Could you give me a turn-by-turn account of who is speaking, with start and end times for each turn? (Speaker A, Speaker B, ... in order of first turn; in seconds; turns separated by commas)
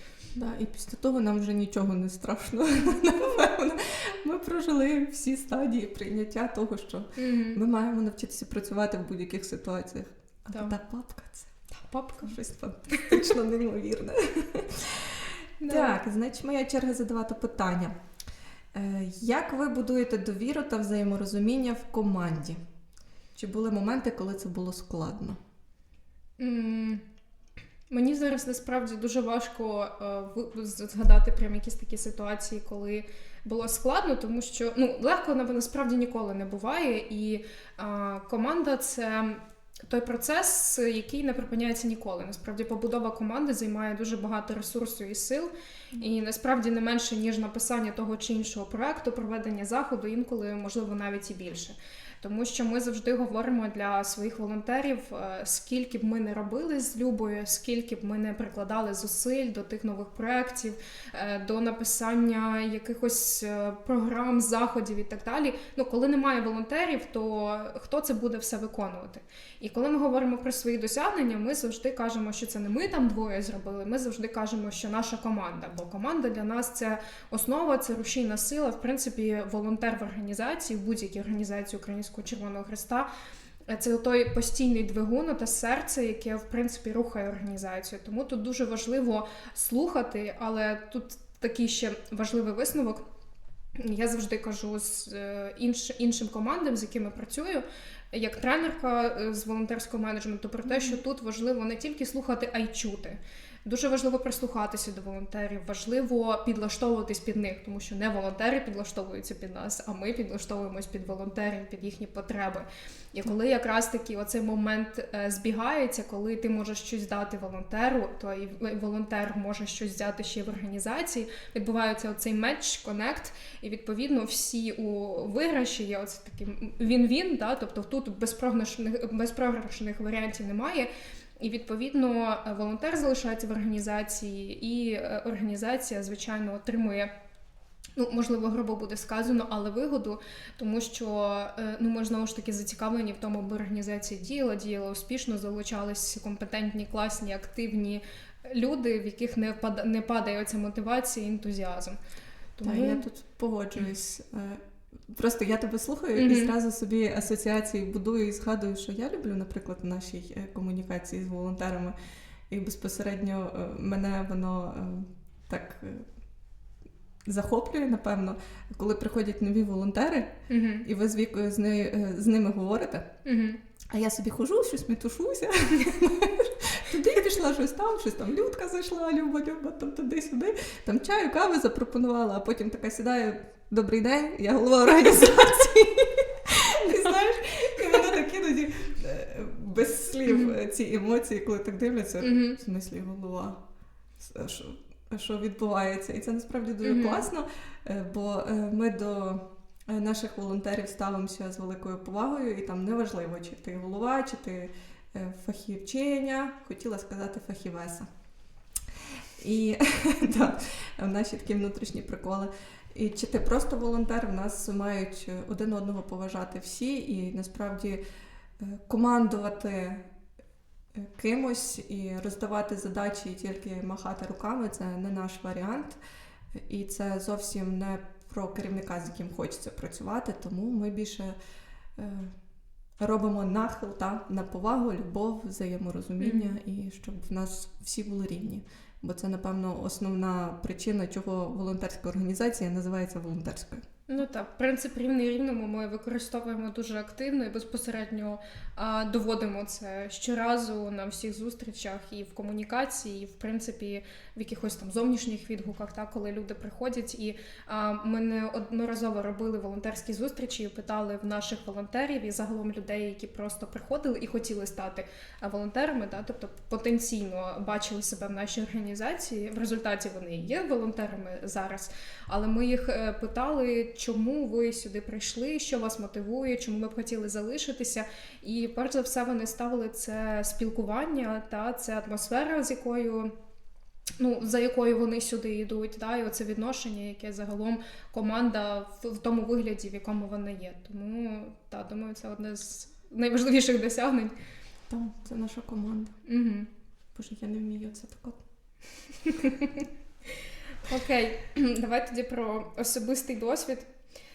Speaker A: 0.4-11.5, Speaker B: 7.2-7.6, Speaker B: 11.7-12.3, Speaker A: 12.2-17.9, Speaker B: 15.6-16.0, Speaker A: 18.7-22.6, Speaker A: 23.4-25.4, Speaker B: 26.4-27.0, Speaker B: 27.9-83.1, Speaker B: 83.7-93.0, Speaker B: 93.8-130.9, Speaker B: 131.4-137.1, Speaker B: 138.0-152.0, Speaker B: 152.6-153.0, Speaker A: 152.6-161.9, Speaker B: 156.2-156.5, Speaker A: 162.5-166.1, Speaker A: 167.3-173.1, Speaker B: 170.5-170.9, Speaker B: 173.2-173.6, Speaker A: 173.9-193.6, Speaker B: 190.3-190.6, Speaker B: 192.2-192.6, Speaker A: 194.2-208.1, Speaker B: 196.8-197.3, Speaker A: 209.4-218.0, Speaker A: 218.6-220.1, Speaker A: 220.9-226.0, Speaker A: 226.7-231.4, Speaker A: 232.0-232.3, Speaker A: 233.0-243.8, Speaker B: 236.2-236.6, Speaker B: 244.1-283.3, Speaker B: 284.2-294.3, Speaker A: 294.9-296.2, Speaker B: 296.3-296.7, Speaker A: 297.1-298.4, Speaker B: 299.2-303.9